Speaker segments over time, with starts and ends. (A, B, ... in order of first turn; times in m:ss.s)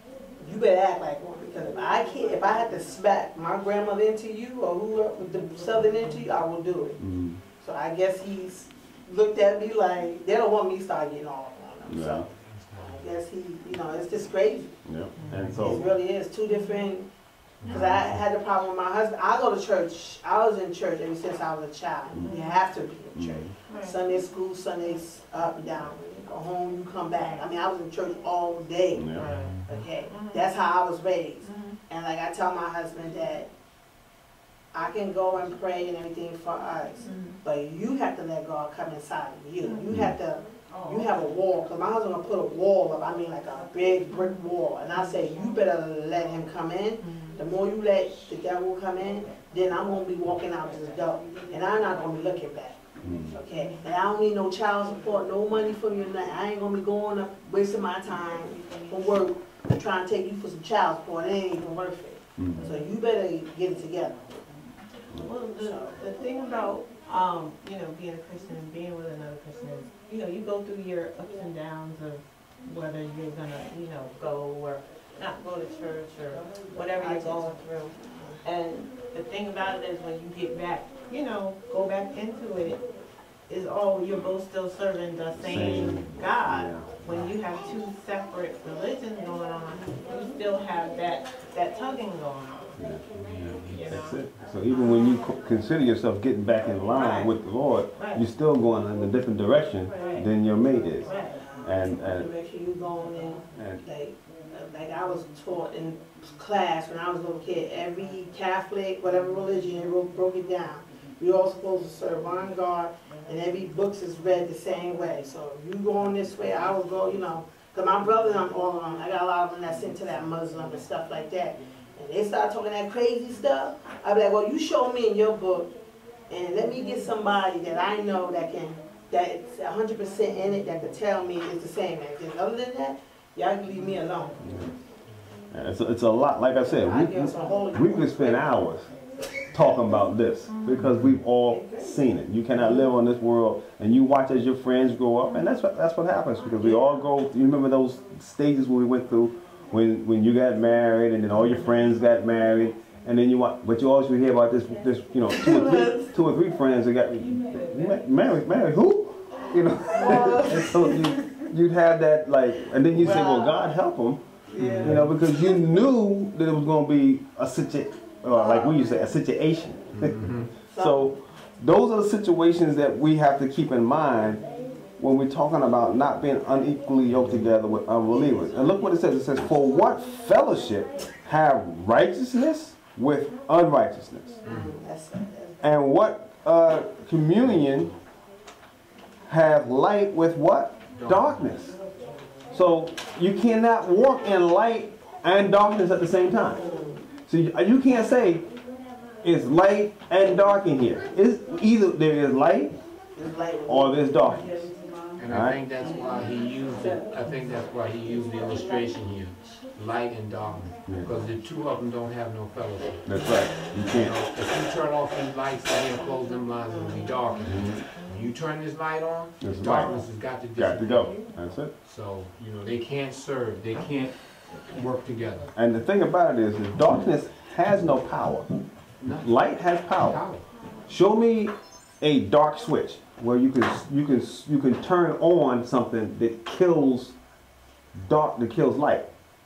0:00.4-0:07.0 A
0:07.0-0:07.4 B
0:07.6-0:14.7 A
0:11.8-0:12.3 B
0:12.3-0:13.1 C
0:14.8-0:15.8 B
0:15.2-0:15.7 D
0:15.3-0:15.6 C
0:15.6-0:17.1 A
0:17.6-0:18.0 C
0:17.6-0:33.5 A
0:17.7-0:18.1 B
0:22.2-0:22.6 D
0:23.1-0:23.5 B
0:23.7-0:24.0 D
0:28.9-0:29.3 B
0:29.1-0:30.5 D
0:29.2-0:29.8 C
0:31.4-0:31.8 D
0:34.7-0:52.8 A
0:37.0-0:37.4 D
0:47.0-0:47.4 D
0:53.0-0:53.3 B
0:53.3-1:04.3 A
1:02.4-1:02.7 B
1:02.6-1:02.8 D
1:05.1-1:22.8 D
1:05.6-1:06.0 A
1:17.0-1:17.5 A
1:18.4-1:19.0 A
1:23.5-1:32.8 D
1:25.4-1:27.0 B
1:27.1-1:27.3 C
1:32.8-1:41.1 B
1:33.1-1:33.9 C
1:33.7-1:34.2 D
1:36.9-1:37.3 D
1:38.0-1:38.2 D
1:39.9-1:40.3 D
1:41.0-1:41.4 D
1:41.0-2:05.7 A
1:41.6-1:42.3 B
1:43.5-1:43.8 B
2:06.3-2:14.4 A
2:14.4-2:14.7 B
2:15.5-2:18.9 B
2:16.7-2:18.7 A
2:17.1-2:17.5 C
2:19.5-2:44.2 B
2:19.5-2:20.0 A
2:20.8-2:21.2 C
2:21.5-2:21.8 A
2:35.3-2:36.1 A
2:39.9-2:41.3 A
2:42.9-2:43.7 A
2:44.5-2:45.6 A
2:44.6-2:45.1 C
2:44.8-2:50.2 B
2:48.3-2:49.1 A
2:50.0-2:50.5 C
2:50.6-2:51.1 A
2:50.7-2:54.4 B
2:55.0-3:04.4 B
2:57.1-2:57.5 C
2:58.0-2:59.0 A
3:04.4-3:05.6 A
3:04.4-3:04.7 C
3:05.6-3:07.9 B
3:09.3-3:11.8 B
3:10.9-3:11.5 C
3:12.5-3:16.6 B
3:16.4-3:17.0 A
3:17.2-3:18.5 B
3:19.2-3:22.8 B
3:23.2-3:24.8 A
3:23.7-3:24.6 B
3:25.2-3:33.2 C
3:25.3-3:25.6 B
3:30.8-3:31.1 B
3:33.0-3:34.2 B
3:33.7-3:41.2 C
3:37.4-3:37.8 B
3:39.4-3:40.0 B
3:40.6-3:41.7 B
3:41.8-3:45.5 C
3:45.5-3:48.5 B
3:49.0-3:49.3 C
3:49.0-3:50.2 B
3:49.9-3:50.4 C
3:50.9-3:57.2 B
3:57.9-3:59.1 B